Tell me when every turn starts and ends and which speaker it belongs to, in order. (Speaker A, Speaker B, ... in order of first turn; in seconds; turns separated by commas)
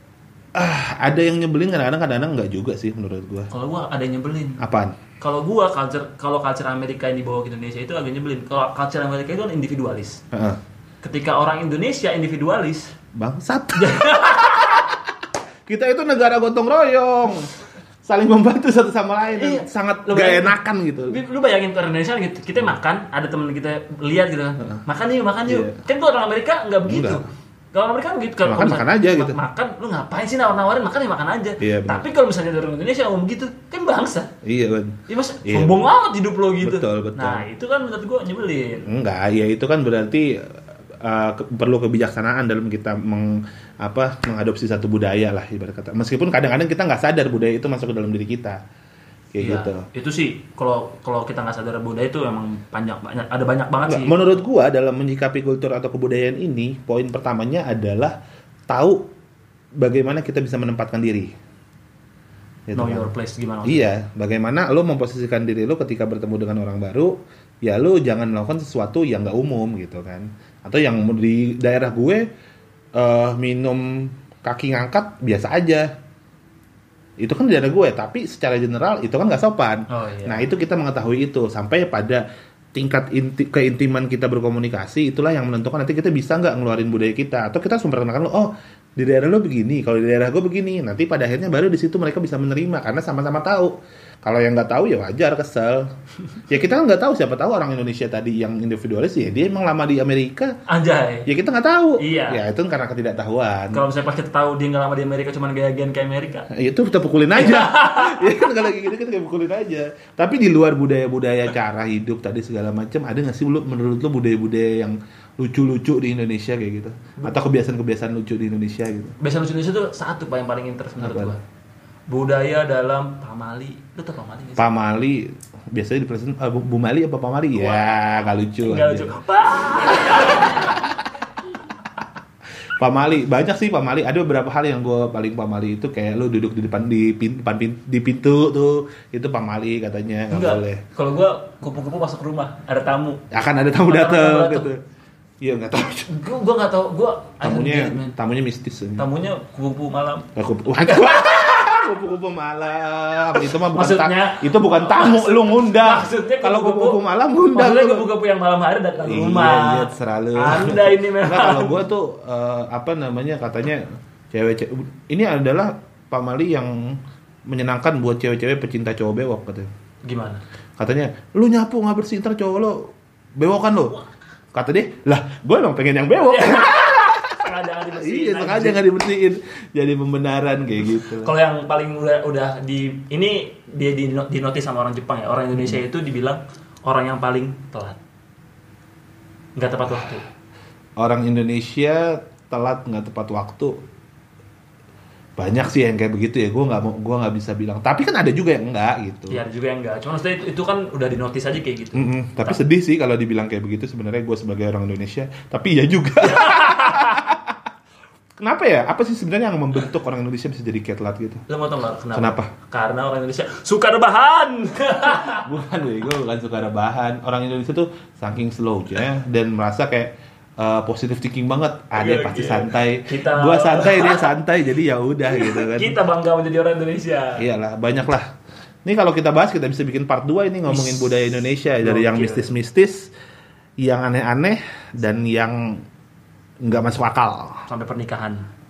Speaker A: 0.5-3.5, Speaker B: 3.5-4.6, Speaker A: 4.6-5.0, Speaker B: 5.2-10.2, Speaker A: 10.3-10.6, Speaker B: 11.0-12.9, Speaker A: 13.2-15.0, Speaker B: 13.8-14.9, Speaker A: 15.7-17.5, Speaker A: 18.0-21.2, Speaker B: 19.3-20.6, Speaker B: 21.1-27.2, Speaker A: 25.4-25.8, Speaker A: 26.9-27.2, Speaker B: 27.7-34.3, Speaker A: 28.4-29.4, Speaker A: 31.6-32.1, Speaker A: 34.4-35.8, Speaker B: 35.1-38.9, Speaker A: 36.6-37.5, Speaker A: 38.9-48.6, Speaker A: 49.3-49.9, Speaker B: 49.4-54.3, Speaker A: 53.9-58.1, Speaker A: 58.7-59.1, Speaker A: 59.8-61.3, Speaker A: 62.7-63.1, Speaker B: 62.7-63.9, Speaker A: 63.6-72.3, Speaker A: 73.0-75.9, Speaker A: 77.2-95.9, Speaker B: 79.9-80.5, Speaker A: 96.5-100.5, Speaker B: 100.7-101.3, Speaker A: 101.2-103.8, Speaker B: 102.0-102.4, Speaker B: 103.7-106.5, Speaker A: 106.5-119.1, Speaker B: 107.3-108.6, Speaker B: 119.2-121.4, Speaker A: 121.0-121.3, Speaker B: 122.1-124.7, Speaker A: 124.6-129.1, Speaker B: 127.5-128.1, Speaker B: 128.6-130.9, Speaker A: 132.8-140.8, Speaker B: 140.3-143.2, Speaker A: 143.3-144.8, Speaker B: 143.8-144.7, Speaker A: 145.4-146.1, Speaker B: 146.0-148.1, Speaker A: 147.4-149.1, Speaker B: 149.0-150.3, Speaker A: 150.4-158.1, Speaker B: 150.8-151.8, Speaker B: 153.3-161.8, Speaker A: 159.0-169.7, Speaker B: 170.0-170.4, Speaker A: 170.8-174.0, Speaker A: 174.5-181.3, Speaker B: 176.1-178.8, Speaker B: 181.1-188.0, Speaker B: 189.6-190.2, Speaker A: 191.0-193.8, Speaker A: 195.4-199.4, Speaker B: 199.3-202.6, Speaker A: 201.9-207.6, Speaker B: 206.2-207.3, Speaker A: 208.4-211.4, Speaker B: 211.5-215.5, Speaker A: 212.1-212.5, Speaker A: 215.3-225.9, Speaker B: 221.9-224.3, Speaker B: 225.2-227.4, Speaker A: 227.4-228.3, Speaker A: 228.8-233.1, Speaker B: 230.7-231.1, Speaker B: 231.8-232.5, Speaker A: 233.8-235.8, Speaker A: 236.6-237.6, Speaker B: 237.7-238.4